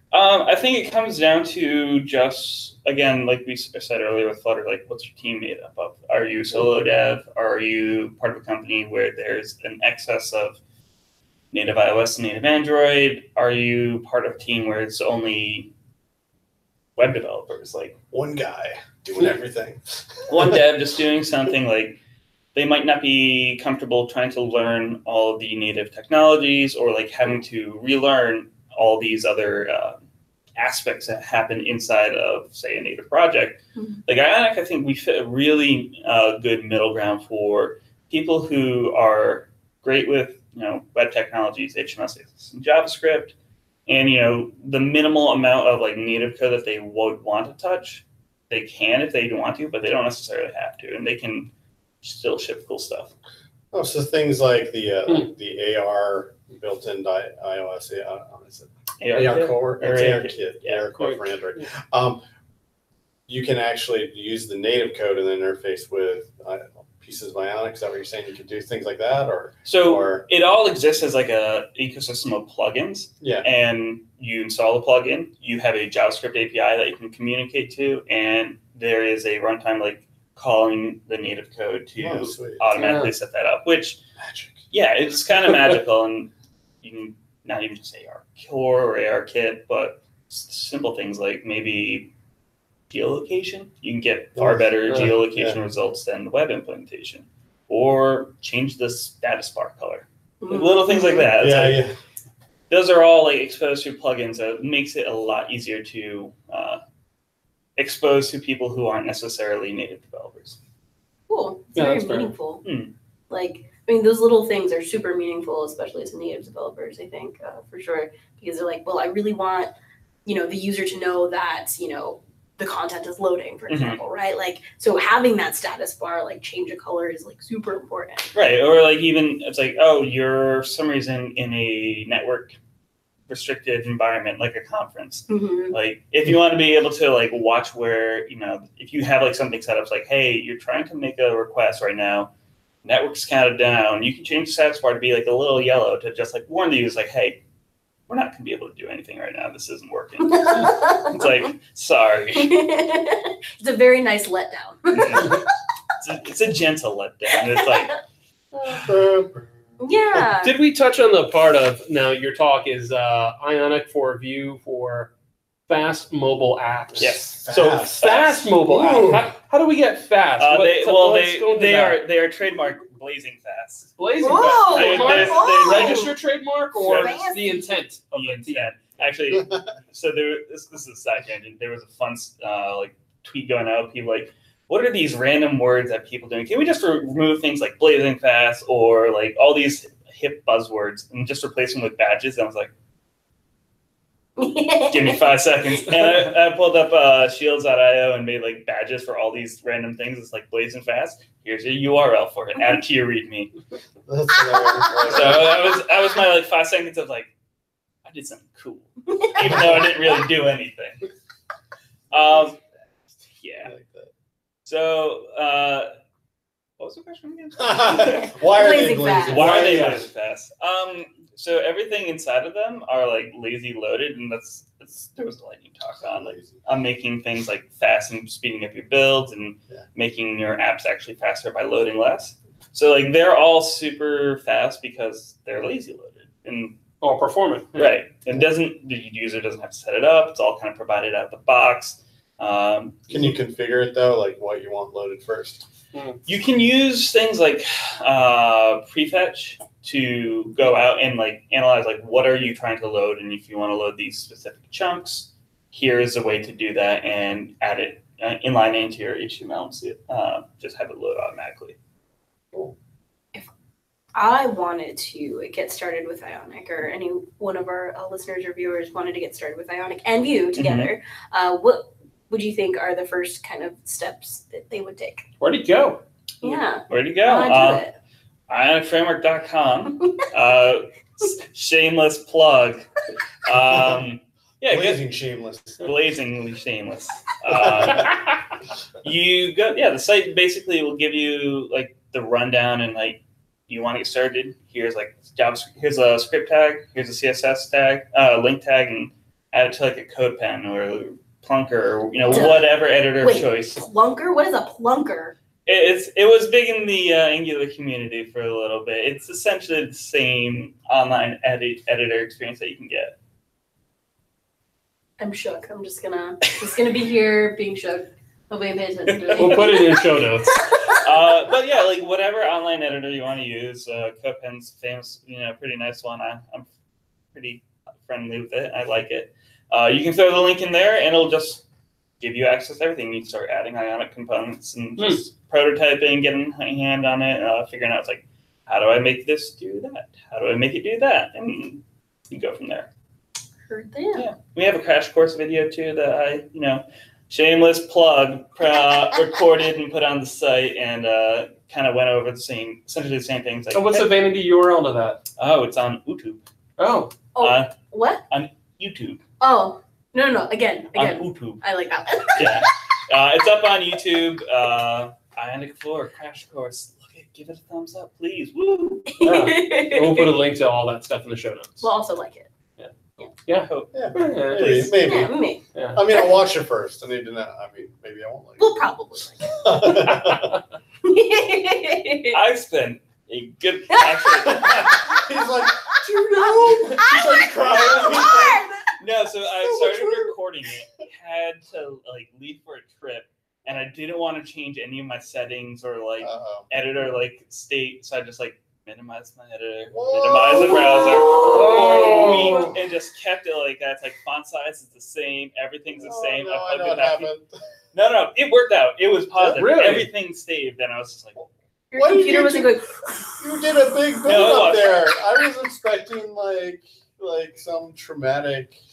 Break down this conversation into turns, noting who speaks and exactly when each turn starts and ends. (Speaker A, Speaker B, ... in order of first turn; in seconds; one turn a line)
Speaker A: 0.1-10.6
Speaker A: 11.5-15.7
Speaker A: 16.9-17.9
Speaker B: 18.1-20.5
Speaker A: 20.3-22.0
Speaker A: 22.5-30.0
Speaker A: 30.6-43.3
Speaker C: 33.8-34.0
Speaker A: 43.9-51.5
Speaker A: 52.0-53.1
Speaker B: 53.7-62.2
Speaker A: 59.0-60.9
Speaker D: 61.0-61.3
Speaker B: 63.3-70.2
Speaker A: 69.7-84.0
Speaker B: 73.2-73.5
Speaker B: 82.0-82.6
Speaker D: 82.8-83.1
Speaker B: 84.2-84.6
Speaker A: 84.7-86.3
Speaker A: 86.8-92.1
Speaker A: 92.9-101.8
Speaker B: 94.4-95.6
Speaker C: 100.4-101.3
Speaker B: 101.4-101.9
Speaker A: 102.7-106.8
Speaker A: 107.8-110.6
Speaker C: 111.3-112.6
Speaker D: 111.8-112.3
Speaker A: 112.6-112.9
Speaker C: 113.3-119.7
Speaker C: 120.2-128.3
Speaker A: 123.7-124.0
Speaker A: 128.3-132.6
Speaker A: 133.3-142.3
Speaker C: 135.3-135.8
Speaker A: 142.8-147.4
Speaker A: 148.1-152.6
Speaker C: 150.3-151.2
Speaker C: 152.3-155.5
Speaker A: 154.9-155.4
Speaker A: 156.0-158.0
Speaker B: 158.8-159.4
Speaker C: 159.8-160.6
Speaker D: 160.4-165.1
Speaker D: 165.7-172.0
Speaker A: 167.0-168.6
Speaker B: 167.0-168.0
Speaker B: 168.7-169.3
Speaker A: 170.4-173.9
Speaker D: 174.0-178.7
Speaker C: 174.2-176.2
Speaker A: 174.5-176.1
Speaker A: 176.8-177.2
Speaker C: 176.9-177.6
Speaker A: 178.1-192.7
Speaker C: 194.4-195.2
Speaker A: 194.9-203.5
Speaker B: 204.1-205.7
Speaker C: 204.5-205.2
Speaker A: 205.1-207.3
Speaker A: 208.0-211.1
Speaker B: 209.4-209.8
Speaker A: 212.1-212.6
Speaker A: 213.4-213.7
Speaker B: 213.6-214.1
Speaker A: 214.6-215.9
Speaker A: 216.8-218.3
Speaker B: 217.6-220.0
Speaker C: 217.9-219.5
Speaker A: 219.3-236.8
Speaker D: 219.3-220.0
Speaker B: 226.2-226.5
Speaker D: 237.0-238.0
Speaker A: 237.7-243.3
Speaker B: 243.1-245.7
Speaker D: 245.9-246.2
Speaker A: 246.3-261.8
Speaker C: 264.1-275.2
Speaker A: 270.6-270.9
Speaker D: 275.4-276.0
Speaker C: 276.4-277.9
Speaker A: 276.9-277.8
Speaker A: 278.5-282.8
Speaker A: 283.4-285.0
Speaker B: 284.7-285.8
Speaker A: 285.8-288.3
Speaker B: 287.5-288.1
Speaker A: 289.0-303.8
Speaker C: 302.3-302.7
Speaker C: 303.2-305.3
Speaker A: 305.6-313.1
Speaker C: 315.2-320.0
Speaker A: 319.1-320.0
Speaker D: 319.4-320.6
Speaker C: 320.7-321.0
Speaker A: 320.8-326.7
Speaker A: 327.3-331.6
Speaker A: 332.2-342.9
Speaker C: 343.7-344.2
Speaker A: 344.1-354.1
Speaker D: 353.7-355.2
Speaker A: 355.4-356.4
Speaker D: 356.8-357.1
Speaker C: 357.3-358.2
Speaker A: 357.4-357.7
Speaker A: 358.3-359.2
Speaker C: 359.4-362.6
Speaker A: 360.9-361.6
Speaker A: 362.4-369.2
Speaker C: 369.1-370.4
Speaker D: 369.2-371.9
Speaker C: 371.8-372.5
Speaker D: 373.5-374.9
Speaker A: 373.5-373.9
Speaker B: 373.9-375.3
Speaker C: 375.0-375.6
Speaker D: 375.7-376.0
Speaker B: 375.9-378.7
Speaker C: 378.6-380.1
Speaker B: 379.5-380.6
Speaker D: 380.1-380.5
Speaker C: 381.0-382.4
Speaker A: 382.3-385.2
Speaker C: 383.9-384.5
Speaker B: 384.4-388.7
Speaker C: 386.0-388.9
Speaker A: 389.0-407.3
Speaker B: 389.6-390.3
Speaker B: 396.2-396.7
Speaker B: 399.9-402.7
Speaker C: 400.6-402.5
Speaker D: 401.4-402.7
Speaker B: 405.9-407.5
Speaker A: 407.9-411.4
Speaker D: 409.4-410.1
Speaker C: 411.9-413.4
Speaker B: 411.9-412.8
Speaker B: 413.4-418.8
Speaker A: 414.2-415.1